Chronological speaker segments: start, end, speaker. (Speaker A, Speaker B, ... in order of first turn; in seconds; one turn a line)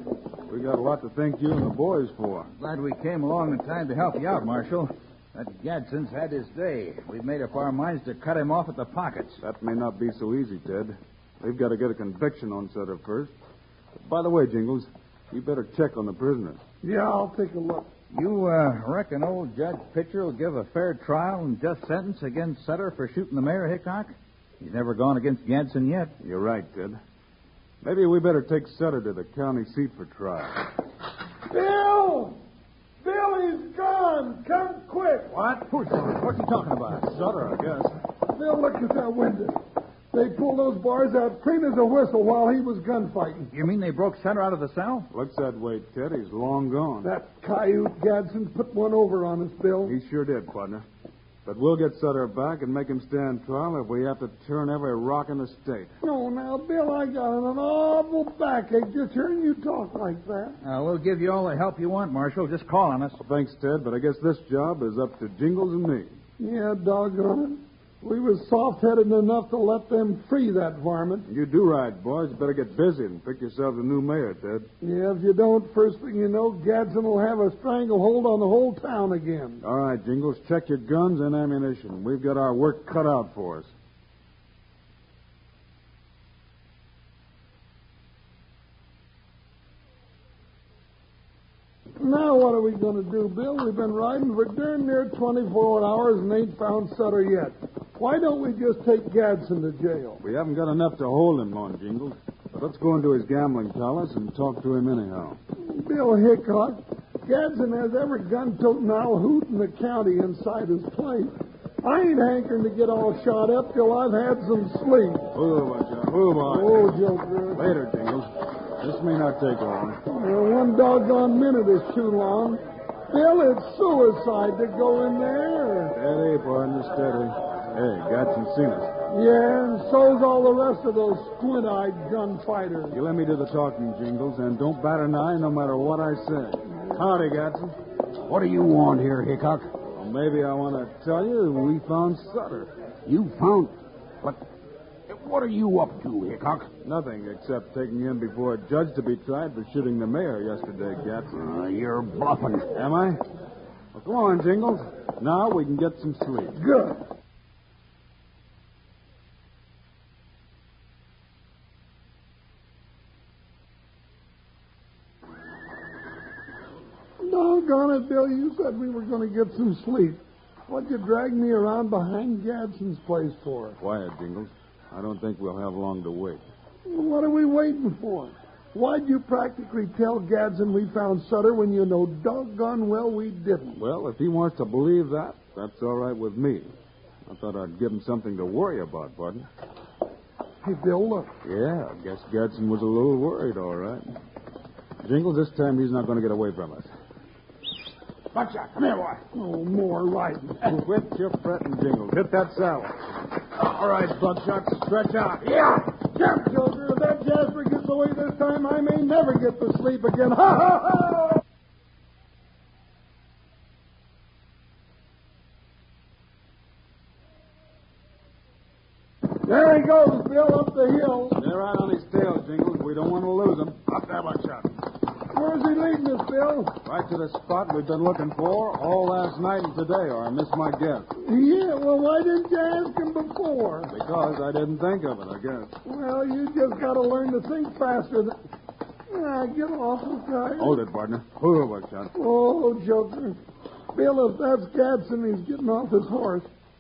Speaker A: 0.5-2.5
Speaker B: 2.6-9.4
Speaker A: 9.4-13.3
Speaker A: 14.0-16.6
Speaker C: 16.8-17.9
Speaker B: 18.1-26.1
Speaker A: 26.2-27.0
Speaker A: 27.8-30.7
Speaker C: 31.5-32.4
Speaker C: 33.0-35.3
Speaker B: 35.3-37.1
Speaker A: 37.1-37.9
Speaker C: 38.3-39.6
Speaker C: 40.1-43.5
Speaker B: 43.5-45.1
Speaker A: 45.1-47.1
Speaker C: 47.0-50.0
Speaker A: 49.8-50.8
Speaker A: 51.5-55.9
Speaker C: 56.0-60.6
Speaker B: 60.6-63.2
Speaker A: 63.2-66.1
Speaker C: 66.4-71.3
Speaker A: 71.3-74.7
Speaker C: 74.8-79.6
Speaker A: 79.6-83.7
Speaker C: 92.0-100.2
Speaker A: 100.2-105.4
Speaker C: 105.6-115.3
Speaker A: 115.3-116.9
Speaker C: 116.4-117.7
Speaker A: 117.5-118.3
Speaker A: 118.8-120.0
Speaker C: 120.1-126.0
Speaker A: 125.9-128.9
Speaker C: 129.1-133.0
Speaker A: 132.9-137.8
Speaker D: 138.3-139.7
Speaker A: 140.0-142.7
Speaker D: 143.1-144.4
Speaker D: 145.1-146.7
Speaker A: 146.8-151.4
Speaker D: 151.3-152.7
Speaker A: 152.8-153.2
Speaker A: 153.9-156.6
Speaker C: 156.6-157.0
Speaker C: 167.2-173.8
Speaker A: 173.8-176.4
Speaker C: 176.9-183.8
Speaker A: 183.8-186.7
Speaker A: 187.3-189.5
Speaker C: 190.6-191.3
Speaker A: 191.4-194.1
Speaker A: 195.0-196.9
Speaker D: 198.3-199.1
Speaker C: 199.3-200.8
Speaker A: 200.7-203.0
Speaker A: 204.2-205.3
Speaker C: 205.9-211.4
Speaker C: 219.4-221.4
Speaker A: 221.4-224.7
Speaker C: 225.3-226.7
Speaker A: 226.8-231.1
Speaker C: 231.2-233.9
Speaker A: 233.9-235.7
Speaker C: 235.8-238.4
Speaker C: 239.1-240.8
Speaker A: 240.6-242.1
Speaker C: 242.1-243.4
Speaker C: 243.9-246.5